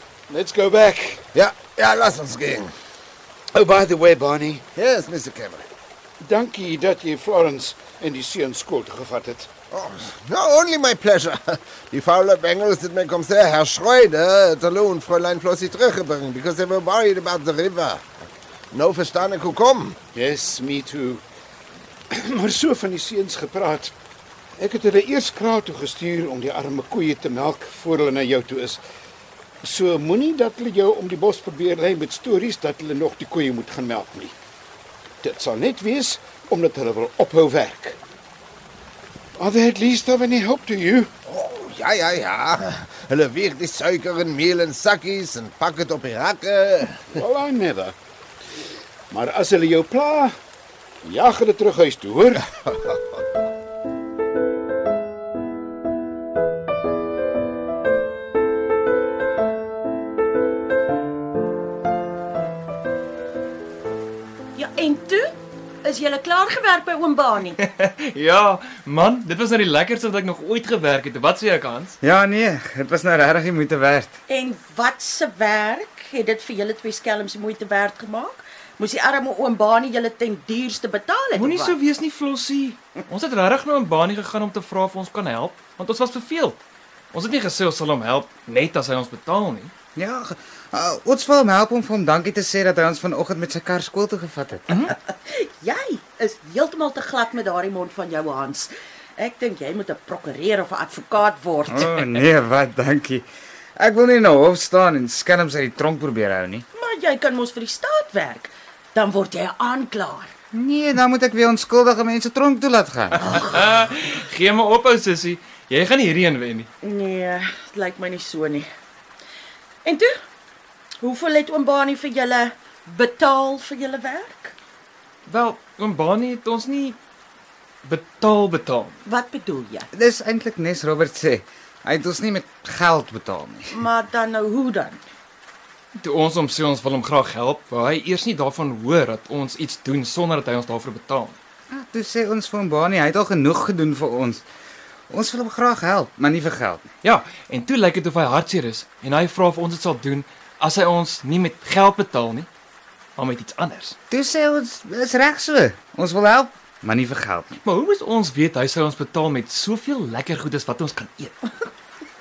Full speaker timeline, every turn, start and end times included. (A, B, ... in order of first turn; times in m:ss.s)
0:00.3-0:01.2 A
0:01.3-0:02.7 B
0:03.5-0:04.6 A
0:04.8-0:05.7 B
0:06.2-0:09.5 A
0:09.7-0:18.0 B
0:18.7-0:20.0 B
0:20.1-0:21.2 A
0:22.1-0:23.9 A
0:24.6-0:28.8 A
0:29.6-0:34.3 A
0:35.2-0:38.0 A
0:39.4-0:41.1 A
0:41.2-0:47.1 B
0:47.1-0:47.9 A
0:49.1-0:50.3 A
0:51.0-0:52.4 A
1:04.6-1:05.2 C
1:05.8-1:07.6 C
1:07.6-1:12.0 D
1:12.0-1:14.2 E
1:14.3-1:21.8 C
1:21.3-1:26.6 D
1:27.1-1:29.7 D
1:30.0-1:34.7 E
1:34.7-1:34.9 D
1:34.9-1:42.2 C
1:41.7-1:46.7 E
1:46.7-1:50.3 C
1:50.5-1:53.4 E
1:53.2-1:56.7 D
1:56.8-1:58.7 C
1:59.8-2:00.1 C
2:01.0-2:04.5 C
2:05.3-2:07.0 D
2:07.8-2:09.0 D
2:09.0-2:09.9 C
2:09.9-2:13.8 E
2:13.7-2:15.0 C
2:16.0-2:21.4 D
2:21.7-2:24.4 E
2:25.1-2:26.8 E
2:27.0-2:32.5 D
2:33.2-2:34.0 D
2:34.1-2:37.6 E
2:37.6-2:41.4 D